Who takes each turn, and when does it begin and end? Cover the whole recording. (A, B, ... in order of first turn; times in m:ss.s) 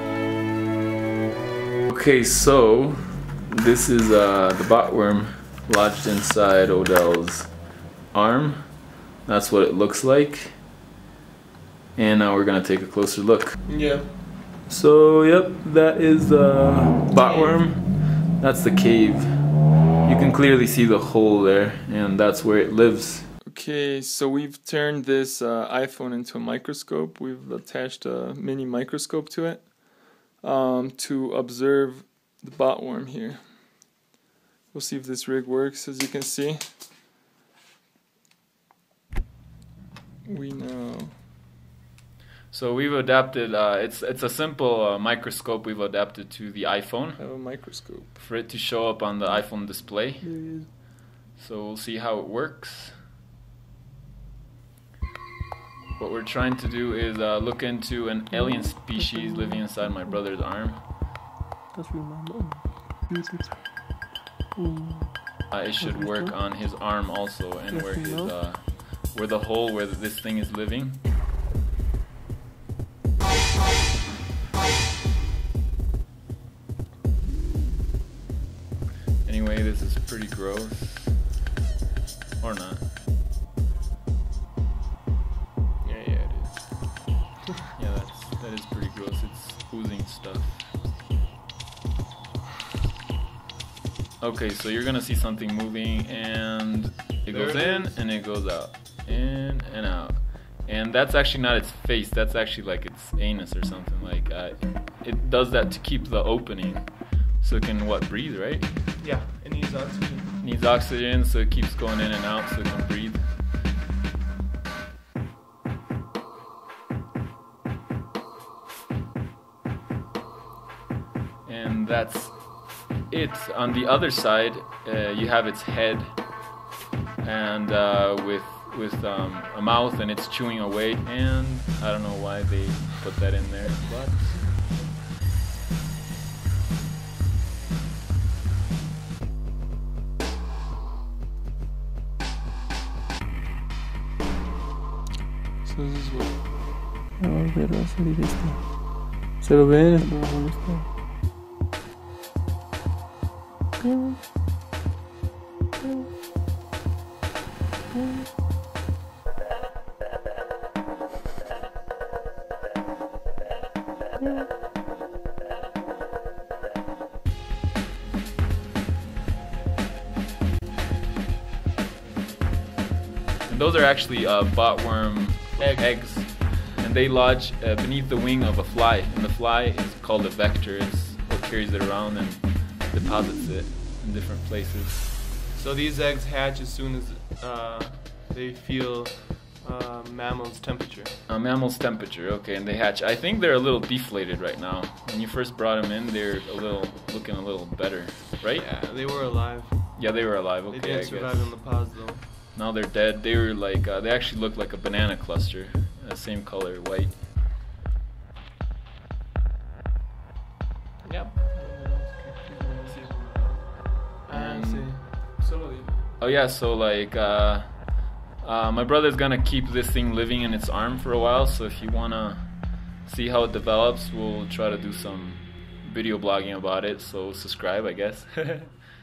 0:01.9-0:07.5 A
0:08.1-0:10.6 A
0:11.9-0:13.6 A
0:13.6-0:14.1 B
0:14.7-0:19.5 A
0:17.1-0:17.6 B
0:20.0-0:23.3 A
0:23.4-0:33.6 C
0:34.7-0:36.7 C
0:40.2-0:41.1 C
0:42.5-0:50.7 A
0:47.2-0:48.1 C
0:50.2-0:50.7 D
0:51.4-0:53.0 A
0:56.0-1:00.9 A
0:58.3-1:00.2 D
1:01.7-1:06.3 D
1:05.5-1:11.0 A
1:07.7-1:08.4 D
1:19.2-1:21.2 A
1:22.4-1:22.8 A
1:25.8-1:27.3 B
1:27.8-1:30.8 A
1:34.2-1:48.8 A
1:37.3-1:38.0 B
1:49.0-1:50.3 B
1:50.4-1:53.3 A
2:01.4-2:02.4 A
2:03.0-2:06.2 A
2:07.2-2:14.7 A
2:25.6-2:26.3 C
2:27.2-2:30.8 D
2:33.8-2:34.2 D
2:35.8-2:36.1 D
2:53.5-3:05.1 A
2:55.6-2:56.1 B
3:05.5-3:11.2 B
3:11.3-3:18.7 A
3:18.6-3:22.3 B
3:20.0-3:21.8 A
3:22.5-3:27.2 A
3:31.0-3:36.0 B
3:34.3-3:35.0 A
3:36.2-3:48.8 A